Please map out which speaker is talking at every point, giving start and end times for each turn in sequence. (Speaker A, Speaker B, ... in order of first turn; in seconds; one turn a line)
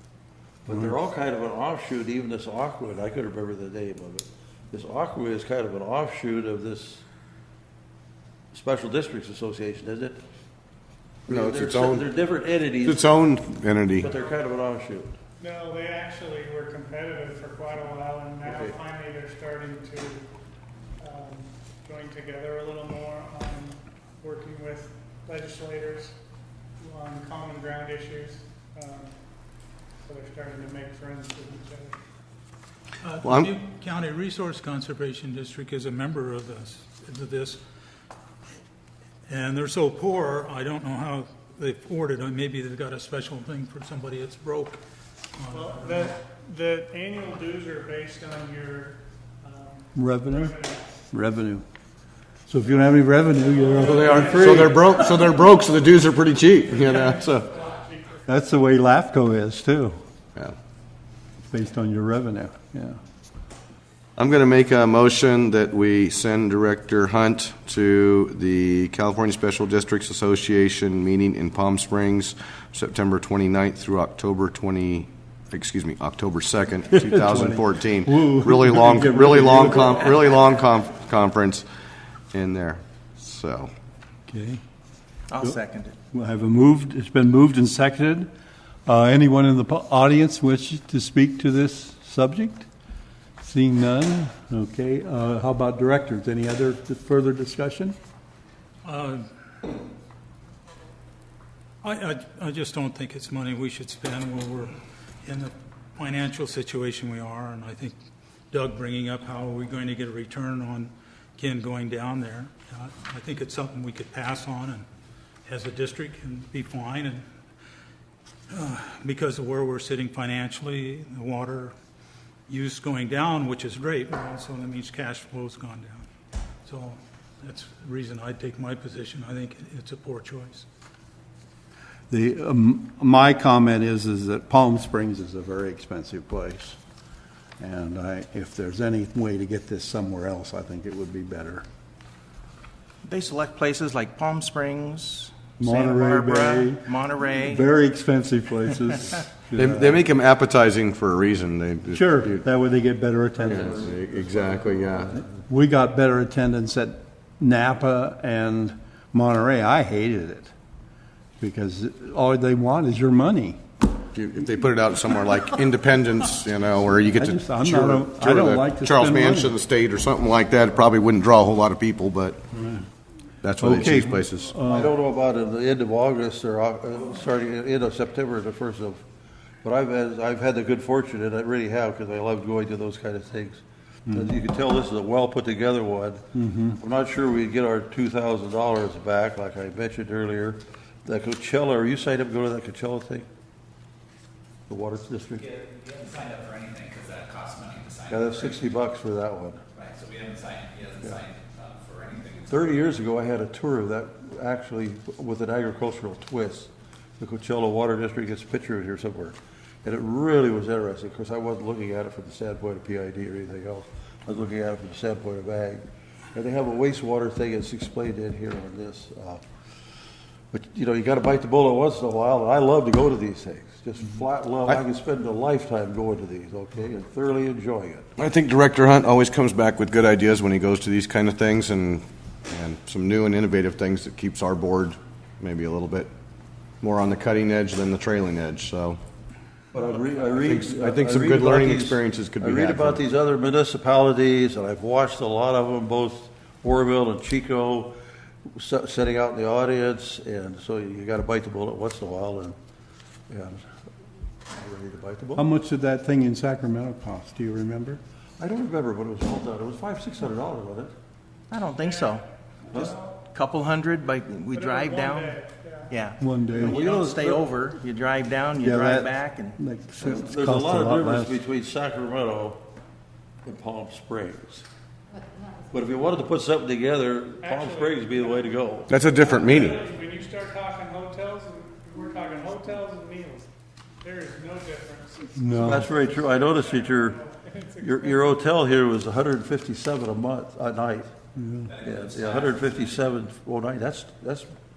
Speaker A: 0.7-7.0
Speaker A: 8.5-10.2
Speaker B: 11.3-12.0
Speaker A: 11.3-13.1
Speaker B: 12.8-14.1
Speaker A: 14.0-15.1
Speaker C: 15.4-20.3
Speaker C: 21.0-26.2
Speaker C: 26.8-32.0
Speaker D: 33.0-37.6
Speaker B: 33.2-33.5
Speaker D: 39.3-44.8
Speaker D: 45.3-46.1
Speaker C: 45.5-51.0
Speaker E: 49.9-50.5
Speaker E: 51.1-51.6
Speaker E: 52.5-54.8
Speaker C: 53.4-55.9
Speaker B: 53.7-57.5
Speaker C: 56.6-58.2
Speaker E: 58.3-59.9
Speaker E: 61.5-63.0
Speaker B: 64.2-81.7
Speaker E: 76.9-80.1
Speaker B: 82.3-83.7
Speaker E: 84.3-84.6
Speaker F: 85.3-86.0
Speaker E: 86.1-88.3
Speaker E: 88.8-92.7
Speaker E: 93.4-97.9
Speaker D: 98.8-99.2
Speaker D: 101.8-107.9
Speaker D: 108.5-114.8
Speaker D: 115.5-117.2
Speaker D: 118.5-121.7
Speaker D: 122.5-126.1
Speaker D: 126.6-130.7
Speaker E: 132.1-136.8
Speaker E: 137.6-141.6
Speaker F: 143.0-147.6
Speaker E: 145.6-150.0
Speaker B: 149.6-152.4
Speaker E: 151.9-153.9
Speaker A: 153.5-153.9
Speaker B: 153.5-155.2
Speaker E: 155.3-160.5
Speaker E: 161.4-163.6
Speaker B: 164.1-172.4
Speaker E: 167.1-169.5
Speaker E: 172.5-172.8
Speaker B: 173.4-174.5
Speaker E: 173.6-174.9
Speaker A: 174.6-179.0
Speaker A: 179.6-193.2
Speaker E: 186.3-186.8
Speaker A: 194.7-195.4
Speaker G: 195.4-198.5
Speaker A: 198.1-199.6
Speaker G: 199.8-202.6
Speaker A: 202.5-215.8
Speaker A: 216.3-219.4
Speaker A: 220.5-228.1
Speaker B: 228.2-236.1
Speaker B: 236.8-239.0
Speaker A: 239.7-247.9
Speaker B: 240.4-243.0
Speaker A: 248.5-252.6
Speaker A: 253.3-253.7
Speaker A: 254.5-255.4
Speaker E: 255.3-258.0
Speaker A: 258.4-260.9
Speaker F: 261.5-265.4
Speaker C: 261.8-262.2
Speaker A: 262.7-263.0
Speaker C: 262.8-263.2
Speaker C: 264.5-266.0
Speaker F: 265.9-269.6
Speaker E: 266.2-266.9
Speaker A: 266.7-267.4
Speaker E: 268.6-271.3
Speaker A: 270.0-272.6
Speaker A: 273.4-274.6
Speaker A: 275.7-279.0
Speaker C: 277.4-283.5
Speaker B: 278.9-279.8
Speaker C: 284.0-288.4
Speaker E: 285.4-285.9
Speaker A: 285.6-287.2
Speaker A: 287.8-291.1
Speaker E: 291.4-291.7
Speaker G: 291.7-292.6
Speaker A: 291.8-294.5